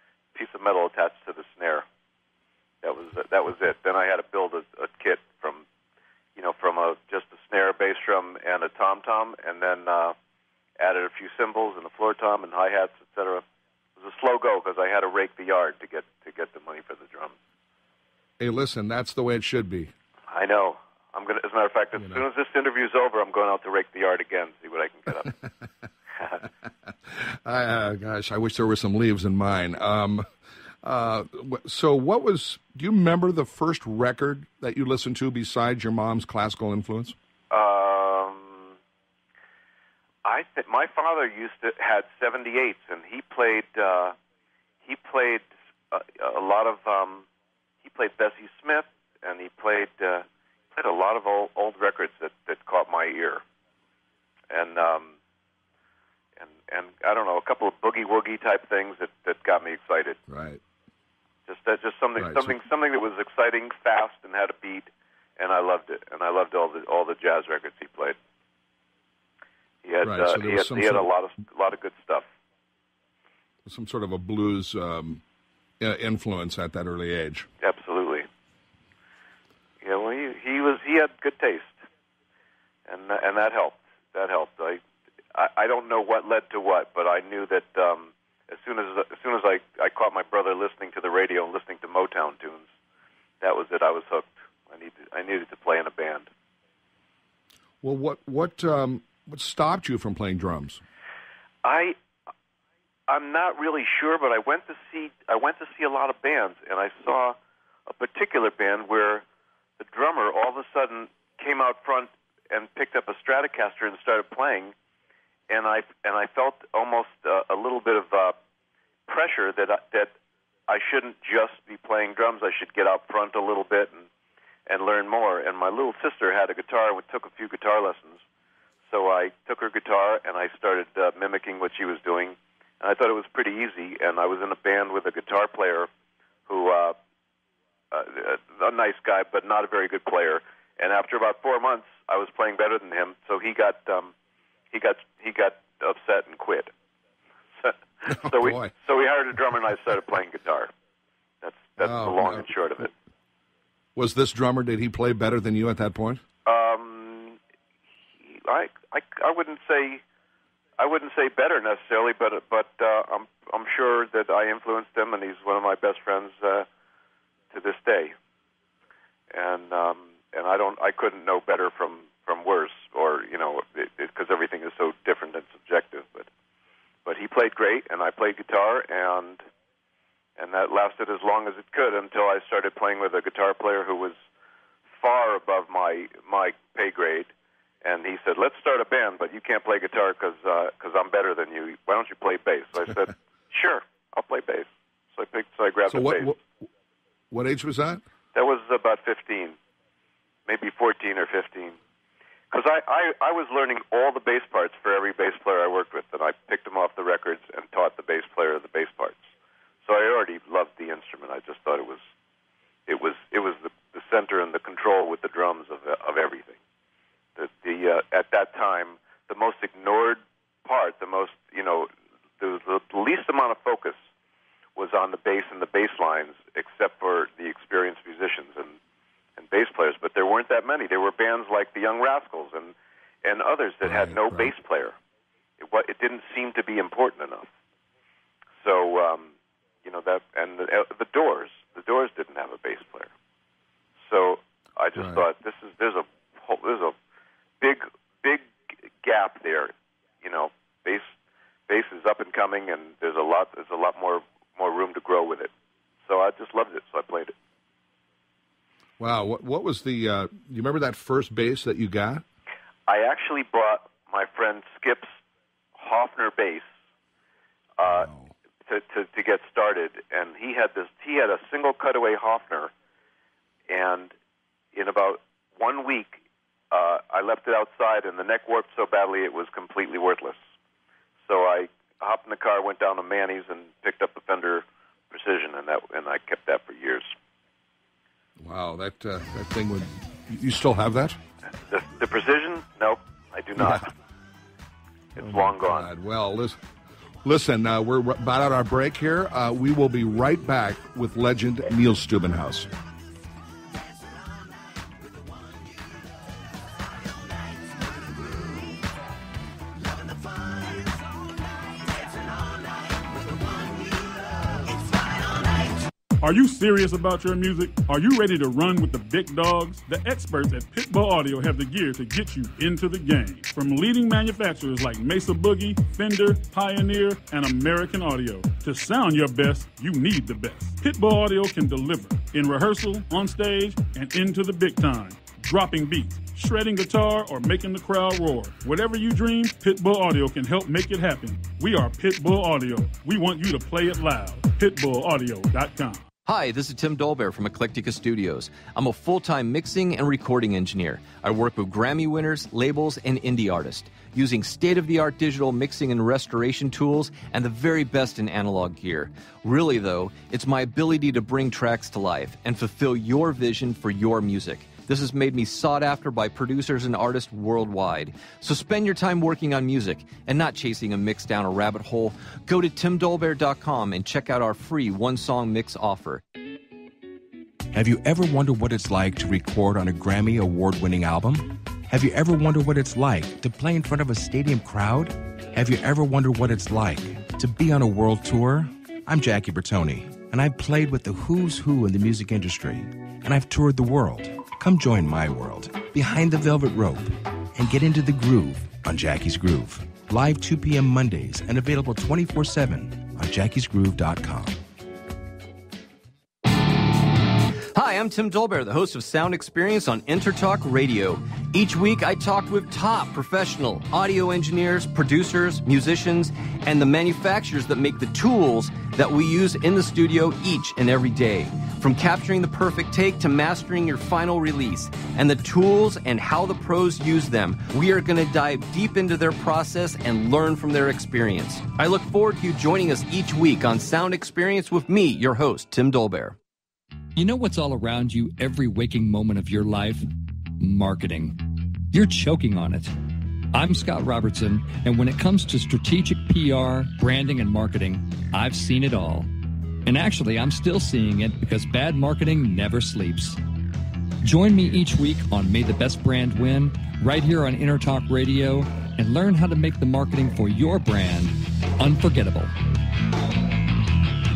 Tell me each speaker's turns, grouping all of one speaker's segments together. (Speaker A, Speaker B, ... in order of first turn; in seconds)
Speaker A: 0.3-1.8, 2.8-5.6, 6.3-10.1, 10.8-13.4, 14.0-17.3, 20.3-25.3, 37.5-38.7, 40.2-44.1, 44.8-47.2, 47.8-53.4, 54.5-55.1, 56.4-60.2, 61.5-68.2, 69.8-72.3, 77.6-78.3, 79.8-81.8, 82.9-84.8, 85.3-92.7, 93.4-96.3, 101.6-101.9, 103.1-107.3, 107.9-109.2, 109.8-114.7, 115.5-118.4, 119.1-120.1, 120.7-124.1, 124.7-128.2, 128.9-135.9, 136.5-136.9, 137.9-144.1, 144.7-146.7, 147.6-150.7, 151.4-152.9, 156.4-157.4, 158.2-160.0, 160.8-166.7, 167.5-168.1, 169.3-176.3, 177.0-179.4, 180.4-184.1, 185.0-187.3, 187.8-196.3, 198.3-199.6, 200.4-201.8, 202.5-209.2, 209.8-212.0, 212.9-216.6, 217.3-224.0, 224.8-228.8, 229.4-234.9, 235.6-237.5, 238.6-239.3, 239.8-243.1, 244.1-246.9, 247.6-248.4, 249.0-251.1, 251.7-255.5, 256.1-257.3, 262.9-265.1, 265.8-266.7, 267.8-268.1, 268.6-272.7, 273.7-274.1, 274.7-280.4, 281.2-287.1, 291.7-293.9, 295.1-295.9
Speaker B: 18.4-19.9, 27.1-30.2, 30.8-37.1, 60.3-60.6, 62.2-62.5, 70.0-71.1, 73.6-75.2, 75.8-77.5, 97.8-100.8, 148.1-148.7, 151.8-152.4, 153.9-156.2, 195.9-196.5, 197.3-198.0, 233.8-234.5, 244.9-245.2, 259.0-262.2, 267.8-268.3, 288.4-291.2, 293.6-293.8, 295.2-296.6, 297.2-302.7
Speaker C: 316.2-346.0
Speaker D: 346.2-376.2, 407.7-436.4
Speaker E: 377.7-404.6
Speaker F: 437.1-440.1, 440.6-441.4, 441.9-442.9, 443.5-449.3, 449.8-453.4, 454.2-462.5